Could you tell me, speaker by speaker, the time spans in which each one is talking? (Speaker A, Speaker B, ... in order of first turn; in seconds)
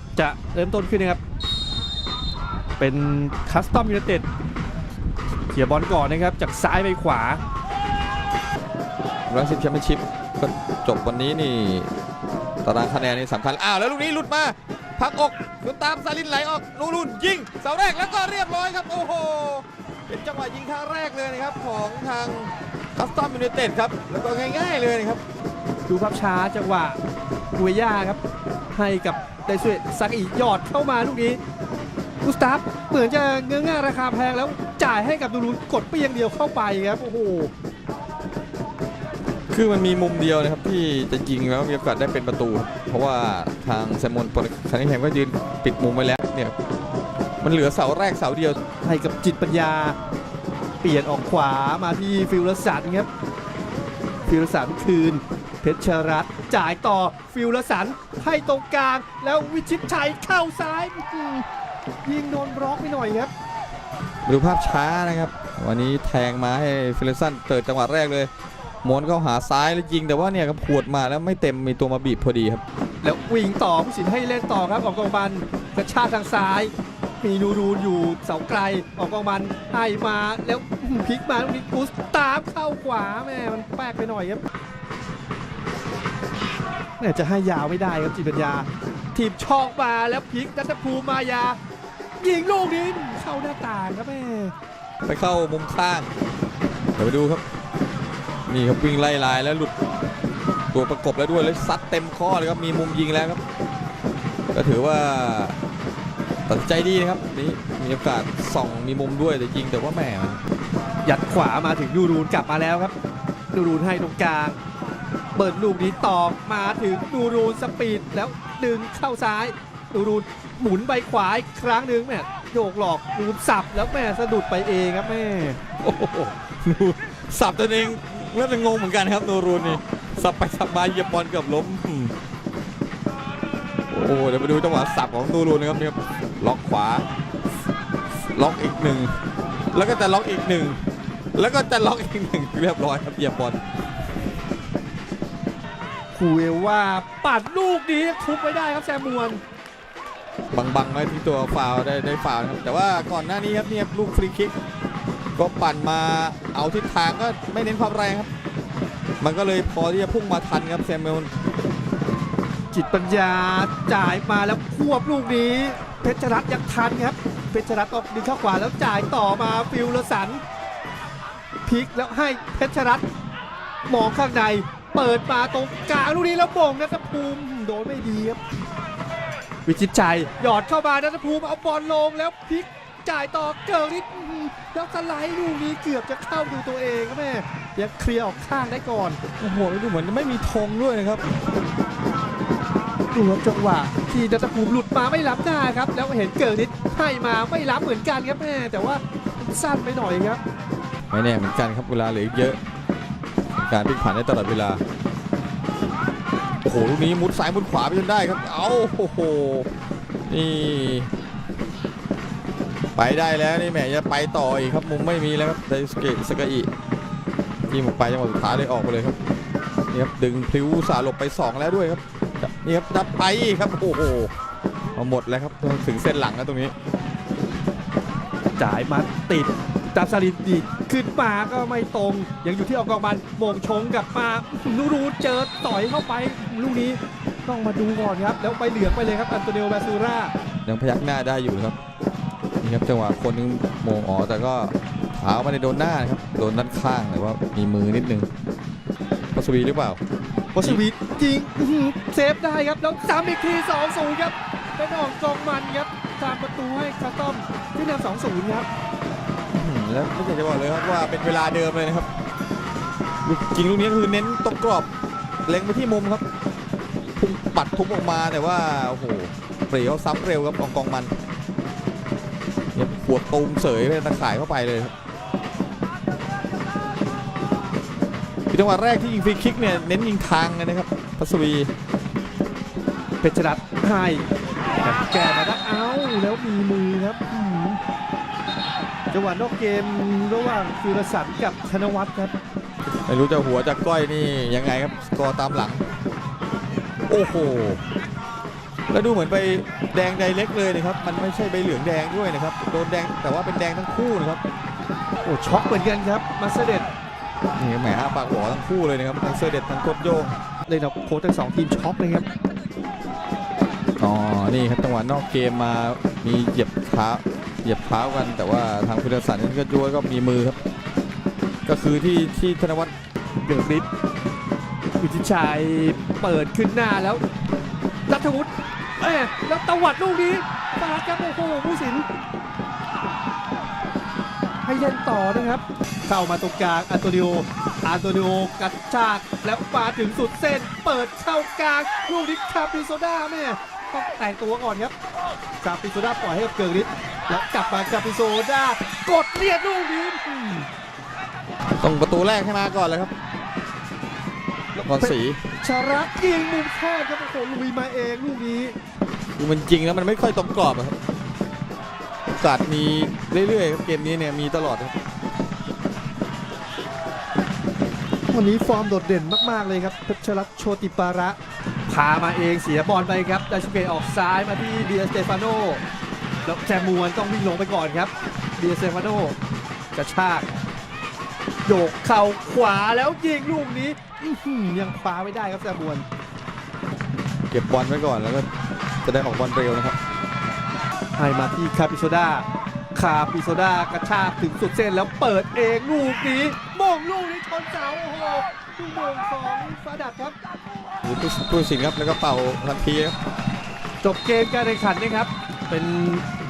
Speaker A: 0.2-1.2, 2.8-4.2, 5.5-7.4, 25.9-27.0, 27.6-28.2, 28.7-31.4, 32.2-37.5, 48.8-50.0, 50.8-53.1, 54.3-61.5, 62.0-63.3, 73.0-84.4, 87.0-91.6, 92.2-94.5, 111.0-112.9, 113.5-114.6, 115.3-125.6, 146.1-149.4, 162.7-170.4, 171.7-173.1, 173.9-178.4, 179.7-189.2, 193.1-200.4, 228.6-240.3, 250.5-258.7, 283.2-284.2, 284.8-287.8, 289.1-292.3, 305.2-306.9, 310.7-312.3, 323.4-323.9, 325.0-327.2, 328.1-332.1, 334.6-344.9, 345.6-350.7, 354.8-358.8, 368.3-375.8, 376.4-379.4, 379.9-380.6, 381.6-386.1, 391.1-400.4, 404.0-406.2
Speaker B: 9.3-11.9, 12.6-25.2, 39.5-46.5, 47.4-48.6, 64.2-68.3, 68.8-72.6, 95.0-96.1, 97.0-97.4, 98.5-99.7, 100.7-103.4, 104.5-105.6, 106.5-110.4, 125.8-132.2, 133.9-137.1, 138.3-139.1, 139.7-140.8, 141.3-143.6, 150.5-154.5, 155.4-158.3, 159.2-161.3, 189.4-191.2, 201.1-202.6, 203.6-204.8, 206.6-209.7, 210.2-211.1, 213.0-216.7, 217.7-219.2, 219.9-224.3, 224.9-226.7, 240.7-241.8, 242.6-248.3, 249.3-250.0, 259.5-262.1, 263.2-264.9, 265.4-266.2, 267.2-271.1, 272.7-274.9, 278.5-281.7, 293.1-295.8, 297.1-297.8, 298.9-304.4, 307.6-310.3, 314.0-320.6, 321.6-322.9, 351.8-353.1, 354.8-355.4, 359.4-360.9, 362.3-365.0, 387.5-388.5, 389.0-390.0, 401.0-403.2